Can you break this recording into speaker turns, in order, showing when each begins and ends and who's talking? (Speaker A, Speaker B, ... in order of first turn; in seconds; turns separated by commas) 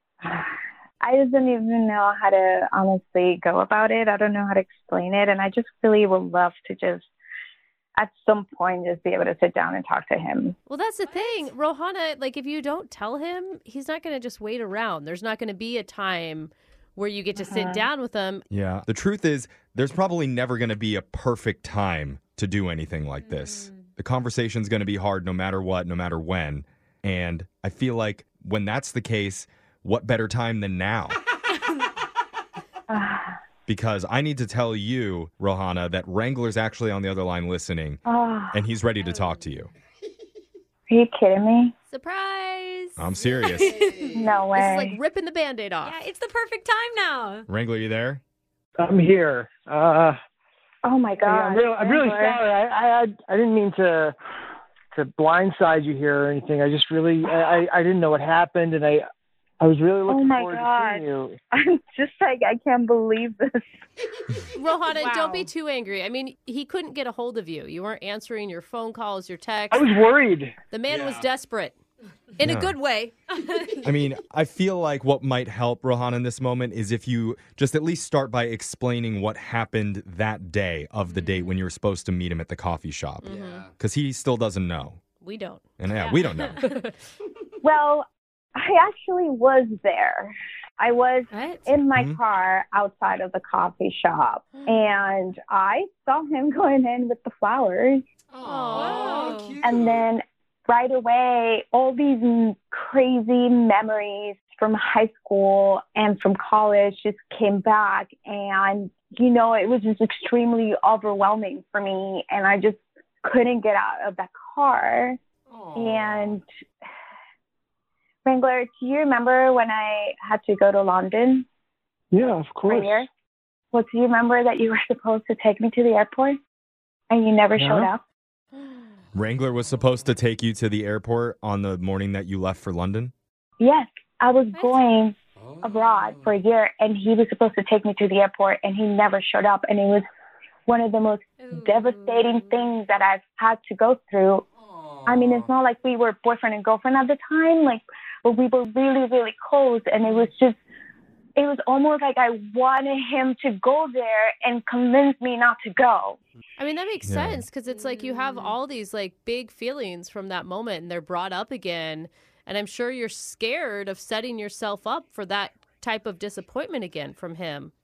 Speaker A: 0.2-7.0, Speaker A: 8.0-10.6, Speaker B: 10.7-18.4, Speaker C: 11.1-11.5, Speaker A: 17.4-17.9, Speaker D: 18.5-31.2, Speaker C: 23.2-23.9, Speaker A: 32.9-33.3, Speaker D: 33.7-39.7, Speaker A: 38.0-38.6, Speaker C: 39.0-39.5, Speaker A: 40.9-41.7, Speaker B: 41.9-43.0, Speaker D: 43.0-43.7, Speaker E: 43.1-44.4, Speaker C: 43.4-44.3, Speaker A: 44.1-45.0, Speaker B: 44.5-46.0, Speaker C: 45.8-47.5, Speaker D: 47.5-48.2, Speaker F: 48.8-50.2, Speaker A: 50.8-52.4, Speaker F: 51.2-54.1, Speaker F: 54.9-59.0, Speaker F: 59.6-61.4, Speaker A: 60.1-61.0, Speaker A: 61.6-63.6, Speaker B: 64.5-69.9, Speaker C: 64.9-65.5, Speaker F: 69.7-70.5, Speaker B: 70.7-71.7, Speaker E: 70.8-71.3, Speaker B: 72.4-73.3, Speaker D: 72.4-72.8, Speaker C: 73.3-73.8, Speaker D: 73.8-83.3, Speaker C: 81.1-81.5, Speaker B: 83.2-83.7, Speaker E: 83.2-83.7, Speaker D: 83.8-85.0, Speaker B: 85.2-85.6, Speaker D: 85.8-86.6, Speaker C: 85.9-86.7, Speaker B: 86.6-86.9, Speaker A: 87.6-98.0, Speaker C: 91.3-91.6, Speaker D: 91.9-92.2, Speaker E: 98.3-100.1, Speaker B: 98.4-99.6, Speaker C: 98.7-99.4, Speaker A: 99.6-115.2, Speaker E: 115.5-116.4, Speaker A: 115.7-116.4, Speaker A: 118.2-121.4, Speaker F: 122.1-123.0, Speaker A: 122.7-123.1, Speaker A: 123.7-126.4, Speaker A: 127.1-128.0, Speaker F: 127.5-127.9, Speaker D: 129.1-133.1, Speaker E: 129.7-130.1, Speaker A: 133.6-140.0, Speaker C: 134.5-134.9, Speaker E: 135.3-136.4, Speaker A: 140.7-144.4, Speaker C: 141.4-142.7, Speaker E: 144.6-145.5, Speaker A: 145.0-150.6, Speaker A: 151.4-156.2, Speaker B: 156.6-167.7, Speaker D: 157.0-157.4, Speaker C: 157.7-158.6